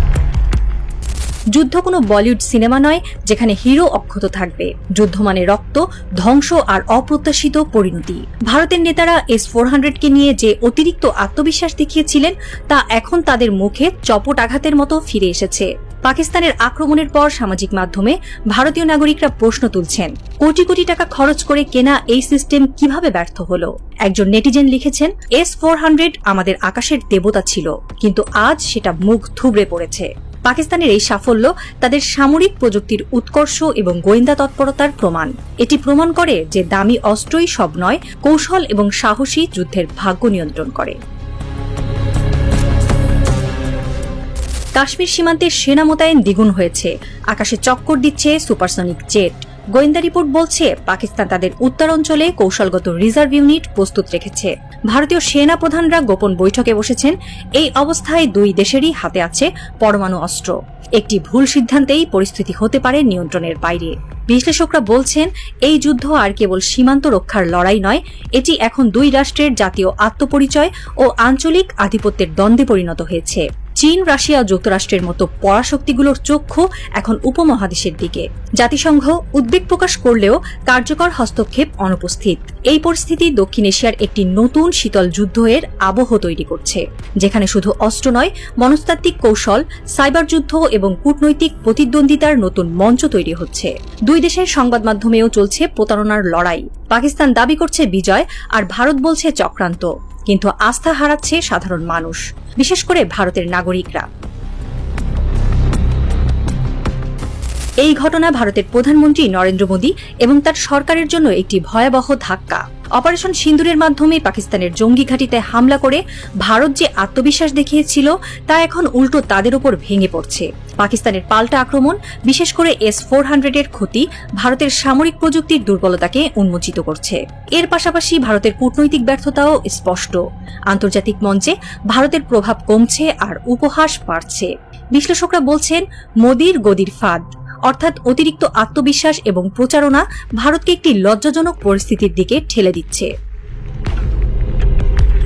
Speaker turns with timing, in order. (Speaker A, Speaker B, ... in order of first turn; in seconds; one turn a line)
Speaker A: 1.6-41.0
Speaker A: 44.8-104.1
Speaker A: 107.8-143.1